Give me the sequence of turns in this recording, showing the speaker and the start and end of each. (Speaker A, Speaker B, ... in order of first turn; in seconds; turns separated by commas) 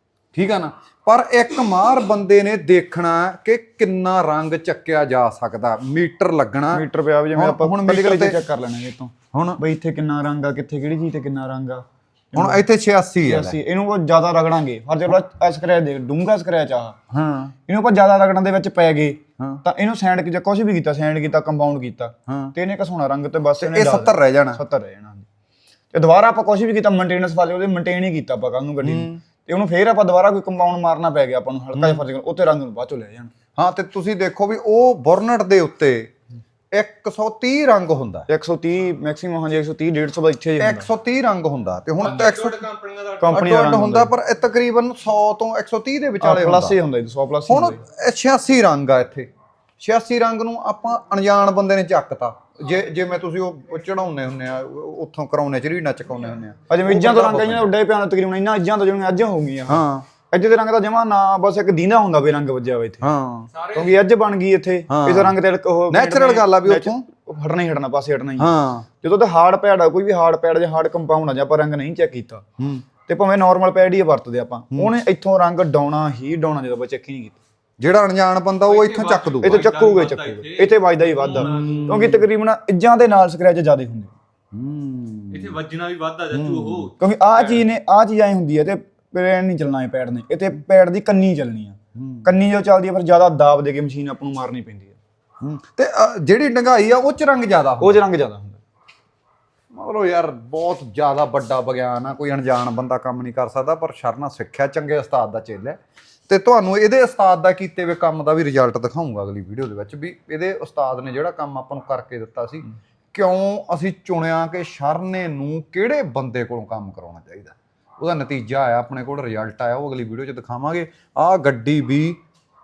Speaker A: 0.3-8.4, Speaker B: 6.7-12.7, Speaker A: 9.3-9.6, Speaker A: 12.3-13.6, Speaker B: 13.3-17.0, Speaker A: 17.1-17.5, Speaker B: 17.7-25.3, Speaker A: 22.3-22.5, Speaker A: 23.6-24.6, Speaker B: 25.9-33.3, Speaker A: 28.8-29.2, Speaker A: 33.6-36.1, Speaker A: 36.7-38.3, Speaker B: 38.3-40.9, Speaker A: 40.6-42.6, Speaker C: 42.0-43.6, Speaker B: 43.2-44.1, Speaker A: 43.3-46.8, Speaker B: 46.2-47.8, Speaker A: 47.5-49.3, Speaker A: 49.8-57.7, Speaker B: 56.7-63.0, Speaker A: 59.7-60.1, Speaker A: 63.0-63.5, Speaker C: 63.5-64.0, Speaker B: 63.7-68.5, Speaker A: 64.9-65.4, Speaker A: 65.9-67.0, Speaker A: 68.4-68.9, Speaker B: 69.0-72.4, Speaker A: 72.6-72.8, Speaker B: 73.1-77.4, Speaker A: 77.8-79.7, Speaker C: 78.7-82.1, Speaker B: 79.4-84.1, Speaker A: 81.4-82.2, Speaker A: 84.5-85.6, Speaker C: 85.3-87.0, Speaker A: 86.3-86.9, Speaker B: 87.0-95.0, Speaker A: 92.0-92.3, Speaker A: 95.4-98.0, Speaker B: 97.8-98.6, Speaker A: 99.7-122.2